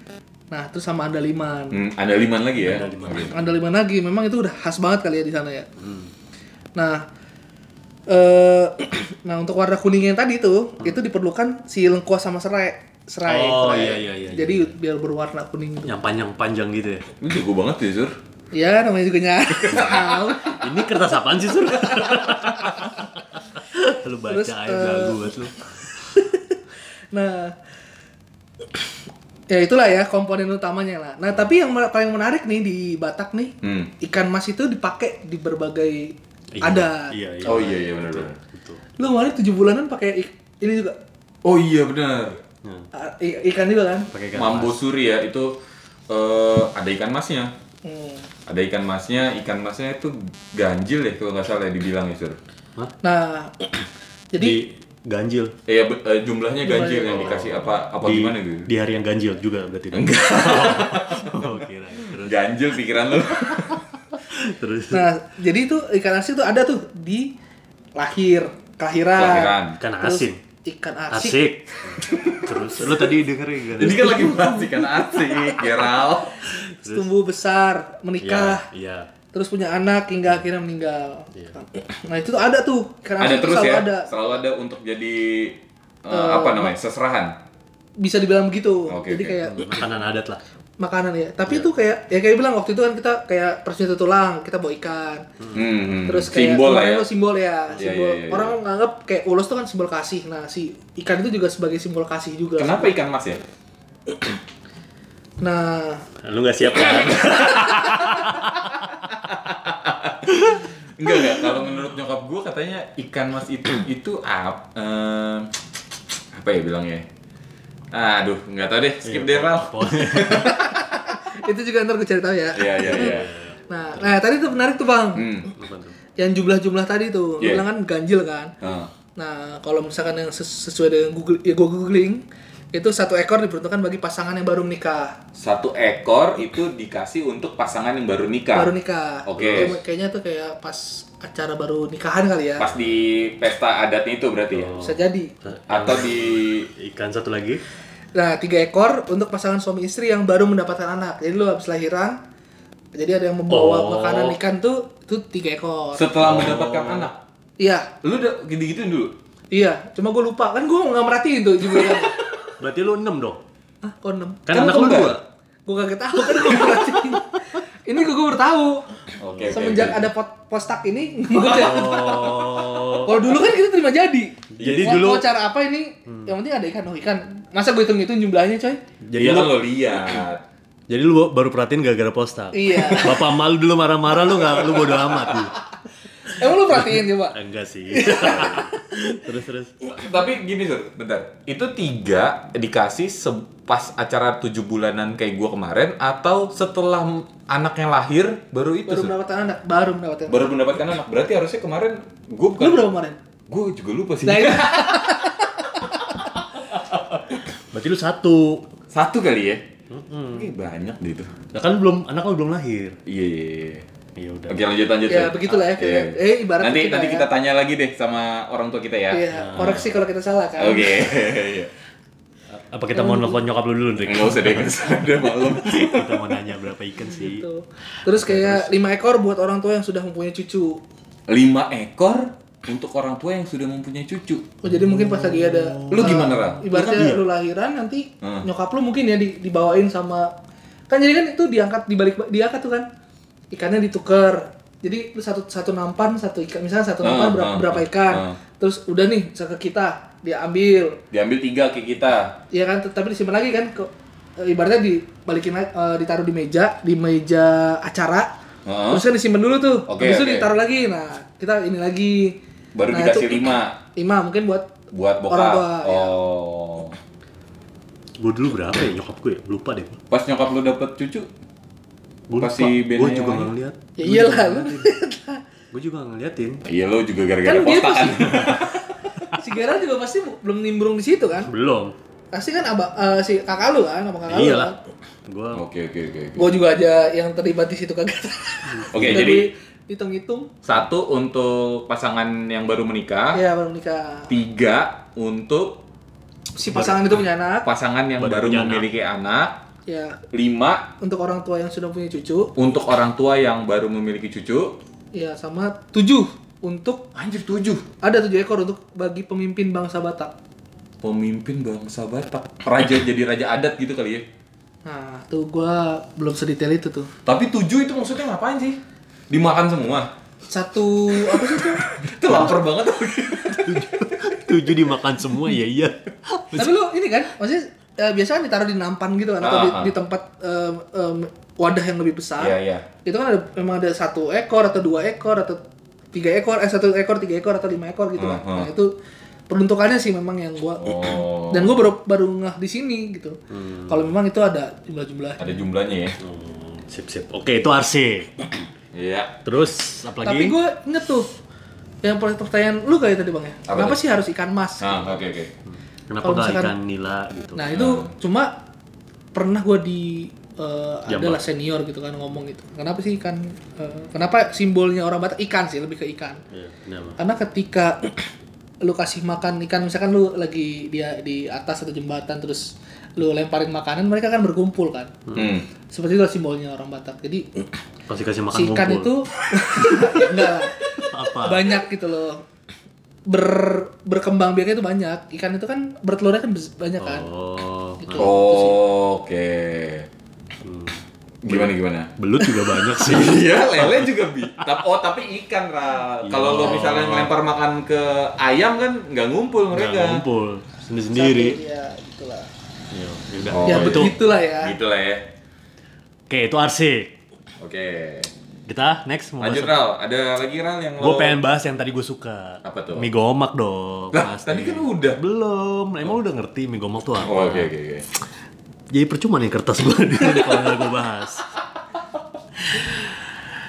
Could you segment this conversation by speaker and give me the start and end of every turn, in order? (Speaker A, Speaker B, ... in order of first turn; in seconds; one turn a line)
Speaker A: 0.5-1.8
Speaker B: 1.7-3.5
Speaker C: 2.6-3.5
Speaker A: 3.3-5.7
Speaker C: 5.8-6.1
Speaker A: 6.8-7.0
Speaker A: 8.1-15.9
Speaker C: 13.2-14.8
Speaker C: 15.8-17.1
Speaker B: 17.2-18.1
Speaker A: 18.5-22.8
Speaker B: 19.6-20.0
Speaker C: 19.7-25.6
Speaker A: 24.3-25.4
Speaker A: 26.1-26.6
Speaker A: 27.1-27.5
Speaker A: 29.5-37.1
Speaker B: 33.6-33.9
Speaker C: 36.5-38.8
Speaker B: 37.4-38.4
Speaker A: 39.0-41.0
Speaker B: 41.4-42.4
Speaker A: 42.9-44.1
Speaker C: 44.1-44.8
Speaker B: 44.3-45.6
Speaker B: 46.1-47.5
Speaker A: 47.8-48.3
Speaker B: 48.5-52.4
Speaker A: 53.0-53.5
Speaker A: 54.3-54.6
Speaker C: 54.4-55.5
Speaker B: 55.7-58.7
Speaker A: 56.6-57.5
Speaker C: 57.1-62.7
Speaker B: 59.9-63.9
Speaker C: 63.5-65.1
Speaker A: 64.9-67.3
Speaker A: 67.9-71.4
Speaker B: 69.1-69.8
Speaker C: 69.8-70.4
Speaker C: 71.1-74.5
Speaker B: 72.0-72.5
Speaker B: 73.8-76.6
Speaker A: 73.8-78.6
Speaker C: 76.5-77.1
Speaker C: 78.2-79.1
Speaker A: 79.3-84.3
Speaker B: 83.2-87.4
Speaker A: 86.1-86.7
Speaker A: 88.0-89.7
Speaker B: 88.9-89.5
Speaker C: 89.4-90.4
Speaker A: 90.8-95.2
Speaker B: 95.5-97.0
Speaker A: 96.1-102.9
Speaker B: 97.8-98.5
Speaker B: 102.6-103.4
Speaker A: 105.4-106.0
Speaker C: 106.2-108.6
Speaker B: 106.7-108.4
Speaker B: 109.1-110.3
Speaker C: 110.3-110.6
Speaker B: 111.0-115.5
Speaker B: 116.3-117.0
Speaker B: 117.9-120.8
Speaker C: 119.0-120.5
Speaker A: 120.4-125.3
Speaker B: 122.5-123.3
Speaker C: 122.8-124.2
Speaker B: 125.2-125.5
Speaker C: 125.5-126.0
Speaker A: 126.2-128.5
Speaker B: 128.6-128.9
Speaker A: 129.2-135.2
Speaker B: 135.3-138.7
Speaker A: 138.5-142.7
Speaker B: 139.2-139.8
Speaker C: 139.4-139.7
Speaker B: 142.6-144.8
Speaker C: 144.5-147.6
Speaker A: 144.8-145.3
Speaker B: 145.7-146.7
Speaker A: 148.1-152.2
Speaker A: 152.9-156.3
Speaker C: 153.5-154.4
Speaker B: 155.9-157.2
Speaker C: 156.2-157.1
Speaker A: 157.6-157.9
Speaker B: 158.0-159.1
Speaker A: 159.5-162.2
Speaker C: 162.6-163.4
Speaker A: 163.8-165.1
Speaker C: 164.4-165.2
Speaker B: 164.5-165.2
Speaker A: 165.7-168.9
Speaker C: 166.3-167.2
Speaker B: 169.2-170.1
Speaker A: 169.5-178.8
Speaker C: 171.5-173.3
Speaker B: 171.5-172.6
Speaker C: 174.6-175.3
Speaker B: 174.6-175.1
Speaker C: 179.0-180.2
Speaker B: 179.1-180.4
Speaker C: 180.9-185.5
Speaker A: 182.5-183.4
Speaker A: 186.2-187.4
Speaker C: 186.7-189.7
Speaker A: 187.9-189.2
Speaker B: 189.8-199.1
Speaker A: 198.9-200.5
Speaker B: 200.3-202.9
Speaker A: 202.6-203.2
Speaker B: 203.5-205.3
Speaker A: 204.2-205.9
Speaker C: 207.7-208.7
Speaker B: 208.9-209.7
Speaker C: 209.9-210.5
Speaker B: 210.3-211.3
Speaker C: 211.5-213.0
Speaker B: 213.1-213.8
Speaker C: 214.2-214.6
Speaker B: 214.5-219.8
Speaker A: 215.1-217.3
Speaker A: 219.1-221.2
Speaker C: 219.3-220.0
Speaker B: 220.6-221.7
Speaker C: 222.5-224.8
Speaker A: 222.9-223.4
Speaker B: 224.0-226.2
Speaker C: 225.8-227.5
Speaker A: 227.1-230.8
Speaker C: 228.0-228.7
Speaker B: 231.3-234.4
Speaker A: 234.6-240.3
Speaker C: 234.6-237.2
Speaker B: 235.9-236.6
Speaker B: 238.2-238.5
Speaker A: 240.9-242.9
Speaker A: 243.5-251.0
Speaker B: 247.0-248.4
Speaker B: 251.1-252.4
Speaker A: 252.5-258.3
Speaker B: 258.6-259.0
Speaker A: 258.9-262.4
Speaker B: 259.9-260.5
Speaker B: 262.7-263.8
Speaker A: 262.9-264.7
Speaker B: 264.9-267.0
Speaker A: 265.3-266.2
Speaker C: 268.2-270.0
Speaker B: 270.1-271.3
Speaker C: 272.3-274.9
Speaker B: 272.4-273.5
Speaker A: 274.0-275.4
Speaker C: 275.7-276.6
Speaker B: 276.6-278.9
Speaker A: 277.4-278.7
Speaker A: 279.2-281.5
Speaker C: 281.4-281.9
Speaker A: 282.3-284.8
Speaker C: 284.3-284.7
Speaker C: 285.2-285.7
Speaker B: 285.5-286.5
Speaker A: 286.4-290.5
Speaker C: 288.7-289.3
Speaker B: 288.9-289.5
Speaker B: 290.6-293.4
Speaker A: 293.3-294.3
Speaker B: 294.3-295.8
Speaker A: 296.6-297.7
Speaker C: 296.7-297.2
Speaker B: 297.6-299.6
Speaker C: 298.2-298.9
Speaker A: 299.9-300.2
Speaker B: 300.3-300.9
Speaker A: 301.0-302.5
Speaker B: 302.6-304.8
Speaker A: 305.1-307.1
Speaker B: 307.1-307.9
Speaker A: 308.0-310.3
Speaker B: 311.0-314.2
Speaker A: 314.8-317.1
Speaker B: 317.2-318.8
Speaker B: 319.3-320.1
Speaker A: 320.5-321.8
Speaker B: 321.2-324.6
Speaker C: 323.5-326.8
Speaker A: 326.5-335.6
Speaker B: 329.4-329.9
Speaker B: 332.4-332.9
Speaker A: 336.1-338.9
Speaker B: 338.2-338.7
Speaker A: 339.5-345.6
Speaker B: 340.8-341.8
Speaker C: 343.5-344.1
Speaker B: 345.4-346.2
Speaker C: 346.2-348.5
Speaker B: 348.9-349.4
Speaker C: 349.4-350.6
Speaker A: 350.2-351.3
Speaker A: 352.0-355.1
Speaker B: 353.7-354.0
Speaker B: 354.8-355.5
Speaker C: 355.7-357.7
Speaker A: 356.2-356.7
Speaker A: 357.5-358.6
Speaker B: 357.7-358.1
Speaker A: 359.3-366.4
Speaker C: 361.1-361.4
Speaker C: 366.5-367.2
Speaker A: 367.2-368.2
Speaker A: 368.8-375.2
Speaker B: 375.3-375.7
Speaker A: 375.9-377.6
Speaker C: 378.1-379.1
Speaker A: 378.5-382.4
Speaker C: 379.9-380.3
Speaker C: 381.1-381.8
Speaker A: 383.3-387.2
Speaker C: 387.0-388.4
Speaker A: 388.0-388.8
Speaker B: 388.2-390.1
Speaker C: 390.6-394.7
Speaker B: 391.4-392.1
Speaker A: 392.4-392.7
Speaker B: 393.0-400.2
Speaker C: 396.2-397.3
Speaker C: 399.7-401.6
Speaker A: 401.1-402.5
Speaker C: 402.9-404.1
Speaker B: 403.5-405.3
Speaker A: 403.6-404.7
Speaker C: 406.3-407.1
Speaker B: 407.6-408.3
Speaker C: 408.6-409.8
Speaker B: 409.4-411.4
Speaker C: 411.0-417.7
Speaker B: 412.6-413.1
Speaker B: 414.1-415.2
Speaker B: 417.2-418.1
Speaker C: 418.9-421.4
Speaker C: 422.6-423.4